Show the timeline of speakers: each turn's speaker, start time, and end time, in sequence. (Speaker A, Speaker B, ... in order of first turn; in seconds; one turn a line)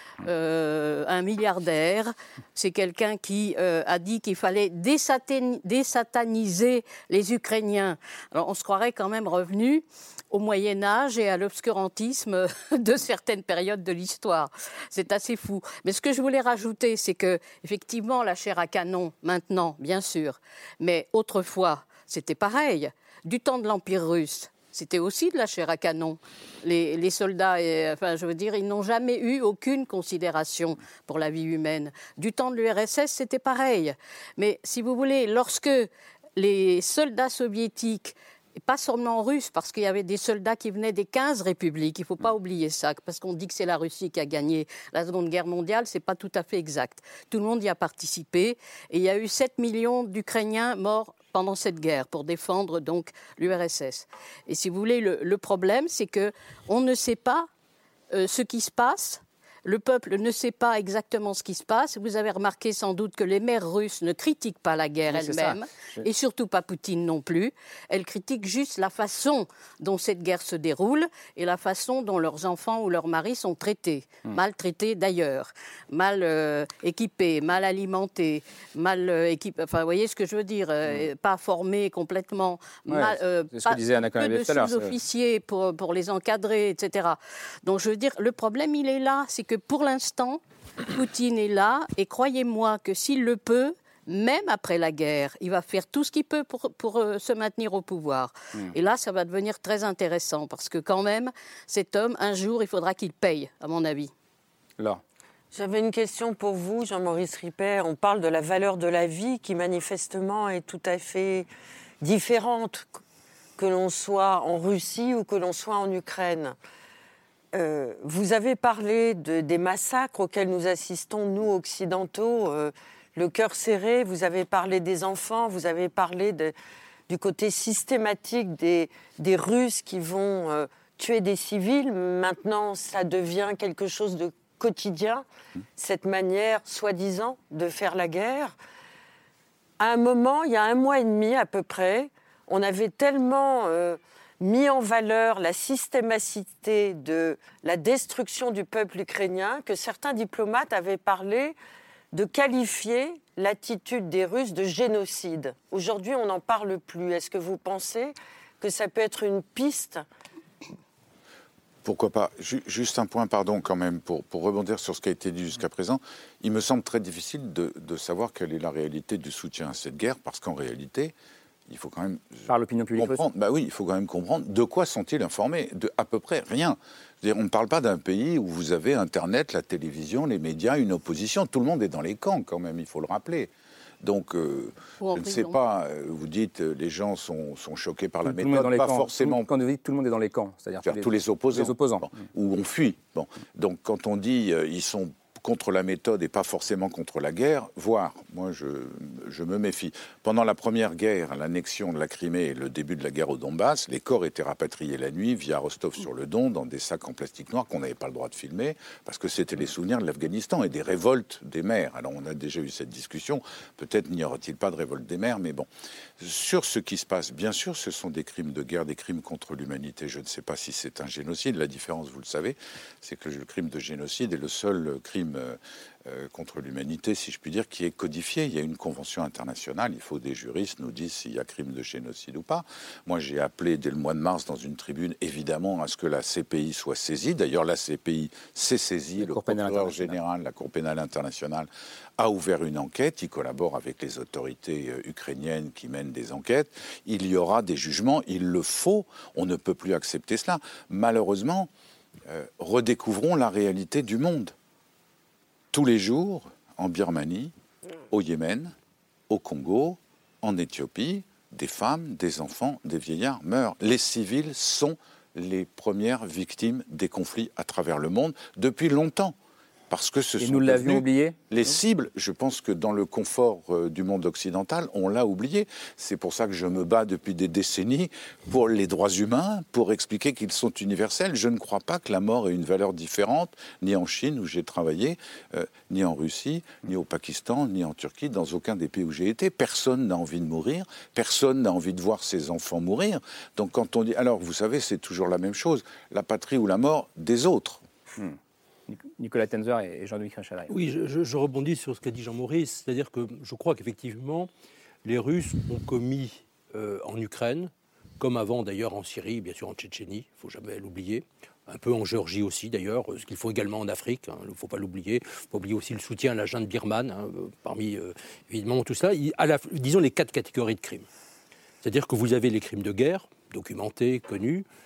Speaker A: 0.2-57.5
Speaker A: 58.1-104.1
Speaker B: 65.1-66.1
Speaker B: 82.9-85.0
Speaker C: 105.5-111.5
Speaker C: 112.0-113.0
Speaker C: 113.6-116.5
Speaker C: 117.5-126.5
Speaker C: 127.1-135.2
Speaker C: 135.8-138.5
Speaker C: 139.8-151.6
Speaker C: 152.1-160.0
Speaker D: 161.8-171.1
Speaker D: 171.7-189.4
Speaker B: 172.5-173.2
Speaker A: 185.0-185.6
Speaker B: 188.2-192.1
Speaker D: 190.8-215.7
Speaker D: 216.2-251.7
Speaker B: 239.2-240.2
Speaker D: 252.3-254.5
Speaker D: 255.7-257.5
Speaker D: 258.1-258.7
Speaker D: 259.3-269.3
Speaker D: 269.9-297.8
Speaker B: 270.4-271.4
Speaker B: 298.1-300.7
Speaker E: 300.7-304.5
Speaker E: 305.0-321.1
Speaker E: 321.8-324.6